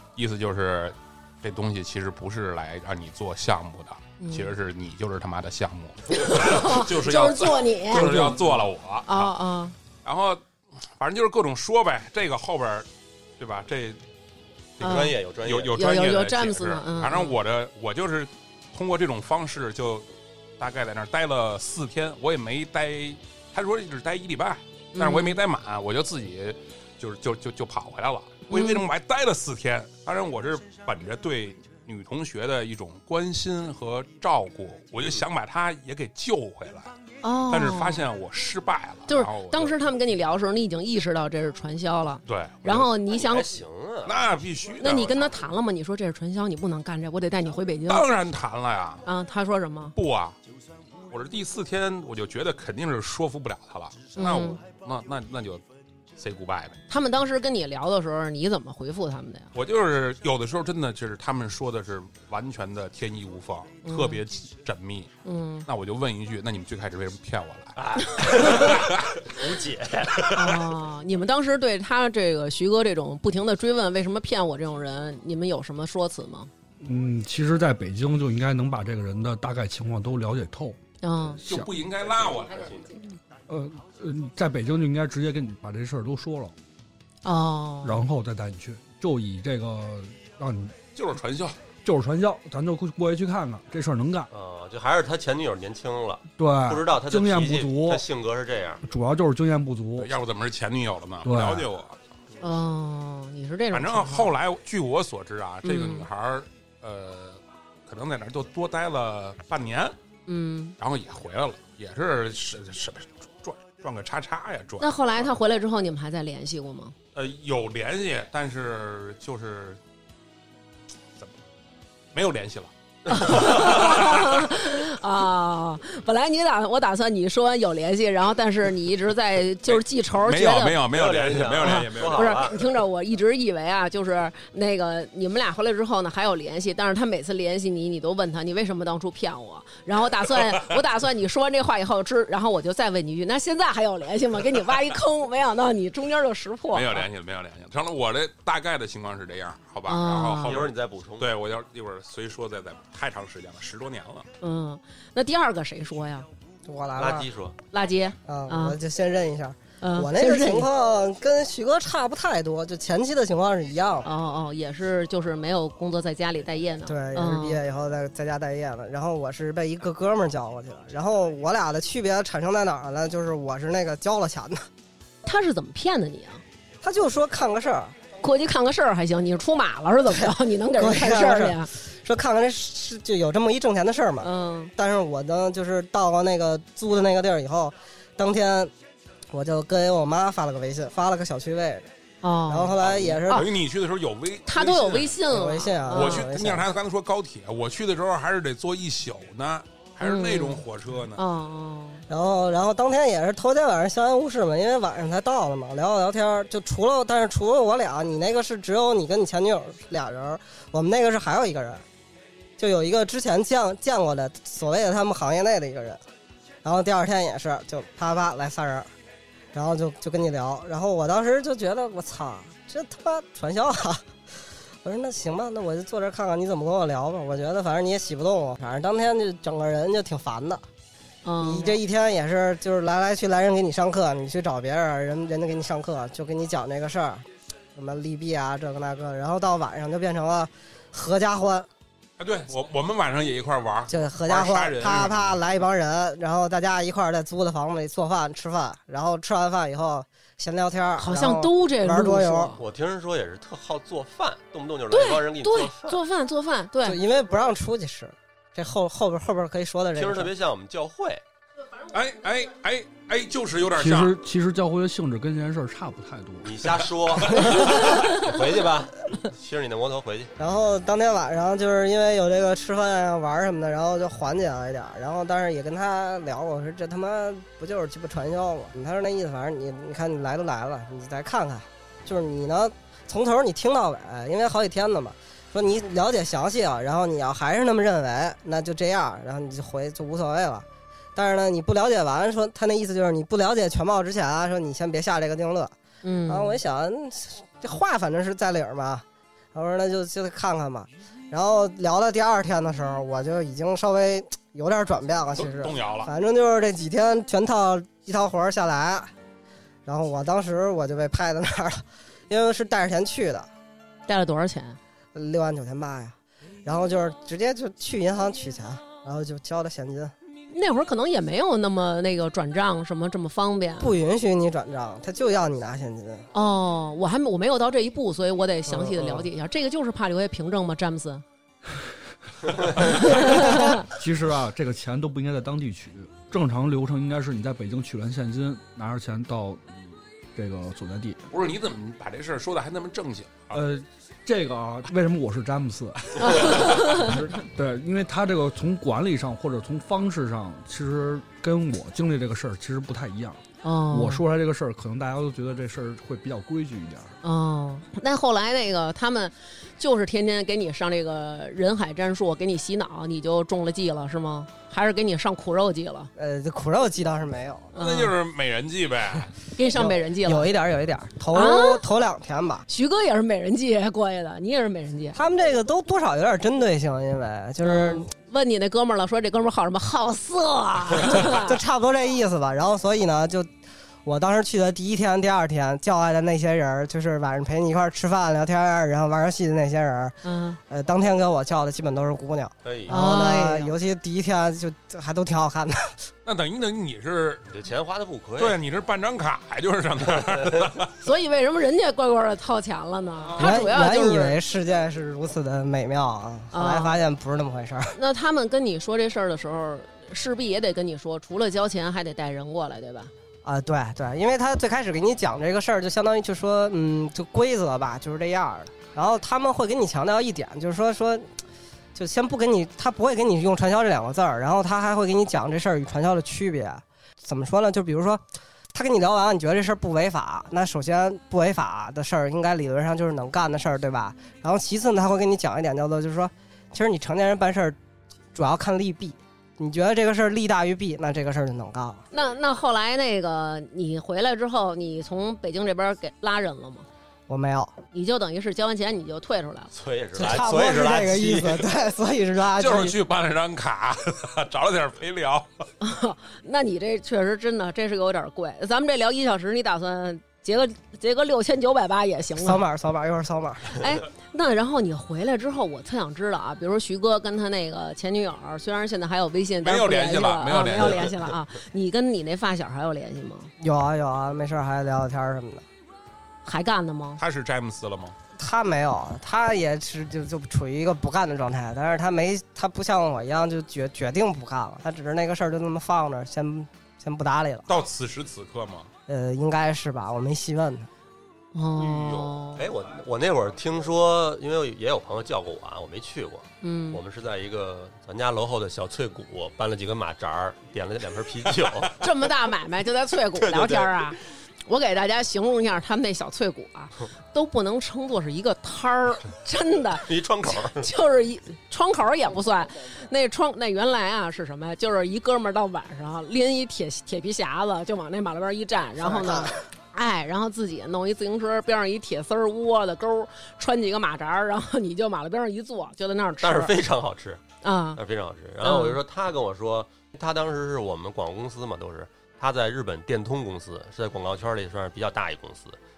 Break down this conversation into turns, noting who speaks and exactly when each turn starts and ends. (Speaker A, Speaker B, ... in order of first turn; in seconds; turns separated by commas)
Speaker A: 0.2-9.3, Speaker B: 4.2-4.5, Speaker B: 6.1-8.3, Speaker C: 8.1-8.4, Speaker B: 9.1-9.8, Speaker A: 10.1-10.4, Speaker A: 11.0-12.9, Speaker A: 13.4-14.0, Speaker C: 14.8-15.8, Speaker A: 14.8-20.1, Speaker B: 14.8-15.2, Speaker B: 15.7-17.3, Speaker A: 20.6-36.9, Speaker B: 24.9-25.4, Speaker B: 28.5-28.8, Speaker B: 37.2-38.0, Speaker A: 37.5-39.7, Speaker B: 39.1-43.5, Speaker A: 42.3-42.9, Speaker C: 43.1-44.1, Speaker A: 44.0-45.4, Speaker B: 44.8-48.1, Speaker A: 47.9-49.0, Speaker B: 49.0-49.9, Speaker A: 50.0-50.4, Speaker A: 51.1-55.6, Speaker B: 54.2-54.6, Speaker A: 56.2-56.8, Speaker B: 56.9-59.5, Speaker A: 59.5-65.1, Speaker B: 63.9-64.2, Speaker B: 65.2-65.7, Speaker A: 65.7-69.2, Speaker C: 67.8-70.6, Speaker B: 68.4-68.7, Speaker B: 70.3-76.5, Speaker D: 76.8-81.7, Speaker B: 81.0-81.4, Speaker A: 81.5-82.7, Speaker C: 82.0-82.9, Speaker D: 83.5-86.5, Speaker B: 87.2-88.0, Speaker D: 87.8-90.8, Speaker A: 91.0-91.6, Speaker D: 91.8-94.3, Speaker C: 94.3-98.8, Speaker D: 96.4-98.0, Speaker D: 98.8-100.1, Speaker A: 100.0-102.0, Speaker D: 101.2-101.7, Speaker B: 102.4-104.3, Speaker A: 103.7-110.0, Speaker B: 105.6-106.1, Speaker B: 110.3-110.8, Speaker A: 110.8-114.9, Speaker B: 114.8-117.0, Speaker A: 117.2-119.8, Speaker A: 122.1-122.7, Speaker B: 123.1-130.8, Speaker C: 123.2-123.7, Speaker A: 123.3-124.2, Speaker A: 129.7-132.4, Speaker C: 130.9-132.7, Speaker B: 131.6-147.1, Speaker A: 146.7-154.3, Speaker B: 149.9-150.7, Speaker C: 150.4-151.3, Speaker B: 154.4-156.3, Speaker E: 156.7-157.3, Speaker C: 157.0-157.6, Speaker B: 157.7-158.8, Speaker E: 158.3-164.1, Speaker B: 159.8-160.7, Speaker B: 164.1-167.6, Speaker E: 166.9-174.7, Speaker B: 175.2-176.4, Speaker E: 176.8-178.0, Speaker B: 178.2-181.7, Speaker E: 180.2-188.7, Speaker B: 184.2-184.7, Speaker E: 189.3-191.9, Speaker B: 192.2-192.8, Speaker E: 192.5-193.4, Speaker A: 192.8-195.2, Speaker B: 194.5-196.3, Speaker E: 195.3-196.7, Speaker A: 195.9-201.2, Speaker B: 200.0-200.6, Speaker B: 201.2-202.0, Speaker E: 202.1-211.8, Speaker E: 212.6-216.0, Speaker E: 216.6-218.9, Speaker E: 219.5-224.0, Speaker E: 224.8-230.6, Speaker B: 231.2-231.8, Speaker E: 231.4-241.7, Speaker A: 242.2-245.4, Speaker E: 243.9-252.6, Speaker B: 251.0-252.6, Speaker C: 252.6-256.0, Speaker B: 254.9-257.0, Speaker E: 256.8-260.3, Speaker C: 259.9-261.2, Speaker A: 261.9-264.1, Speaker D: 263.8-266.8, Speaker C: 266.4-270.3, Speaker E: 267.4-267.9, Speaker E: 270.4-295.7, Speaker B: 296.0-296.6, Speaker E: 296.3-309.1, Speaker A: 305.4-306.1, Speaker E: 309.9-313.5, Speaker B: 314.1-314.8, Speaker E: 315.1-320.1, Speaker B: 320.5-323.9, Speaker E: 323.8-326.3, Speaker B: 326.3-331.2, Speaker E: 328.7-329.3, Speaker B: 332.8-333.9, Speaker D: 333.9-341.2, Speaker A: 341.3-343.6, Speaker D: 343.5-357.2, Speaker B: 346.2-347.1, Speaker B: 353.6-354.2, Speaker B: 357.2-366.1, Speaker E: 366.2-367.7, Speaker B: 367.8-368.1, Speaker A: 367.8-369.3, Speaker B: 369.6-370.5, Speaker E: 369.7-372.7, Speaker B: 371.3-371.8, Speaker B: 372.7-375.2, Speaker E: 375.1-378.1, Speaker B: 377.6-381.6, Speaker E: 381.2-383.5, Speaker E: 384.1-395.9, Speaker B: 390.2-390.6, Speaker C: 392.6-392.9, Speaker B: 392.9-393.7, Speaker A: 396.2-397.4, Speaker C: 397.5-398.6, Speaker A: 398.4-400.9, Speaker B: 401.0-404.4, Speaker A: 403.3-403.6, Speaker E: 403.4-407.9, Speaker B: 406.5-407.0, Speaker B: 407.9-413.1, Speaker E: 413.4-421.3, Speaker E: 421.9-428.2, Speaker E: 428.7-437.8, Speaker E: 438.4-442.0, Speaker B: 442.1-446.9, Speaker E: 447.3-447.8, Speaker B: 447.9-449.7, Speaker C: 449.7-451.7, Speaker E: 450.1-453.0, Speaker A: 452.6-455.6, Speaker B: 455.8-462.6, Speaker E: 462.4-463.9, Speaker B: 463.8-473.5, Speaker A: 469.6-471.1, Speaker E: 473.6-475.6, Speaker B: 476.4-477.2, Speaker A: 477.2-478.1, Speaker E: 478.4-487.7, Speaker A: 487.7-488.9, Speaker E: 489.1-490.9, Speaker B: 491.6-492.6, Speaker A: 491.8-492.4, Speaker C: 492.6-501.9, Speaker B: 496.6-497.0, Speaker B: 502.0-526.8, Speaker C: 503.4-504.1, Speaker C: 510.0-510.9, Speaker E: 519.0-519.6, Speaker C: 526.4-527.4, Speaker B: 527.6-528.0, Speaker C: 528.0-535.8, Speaker B: 528.6-529.0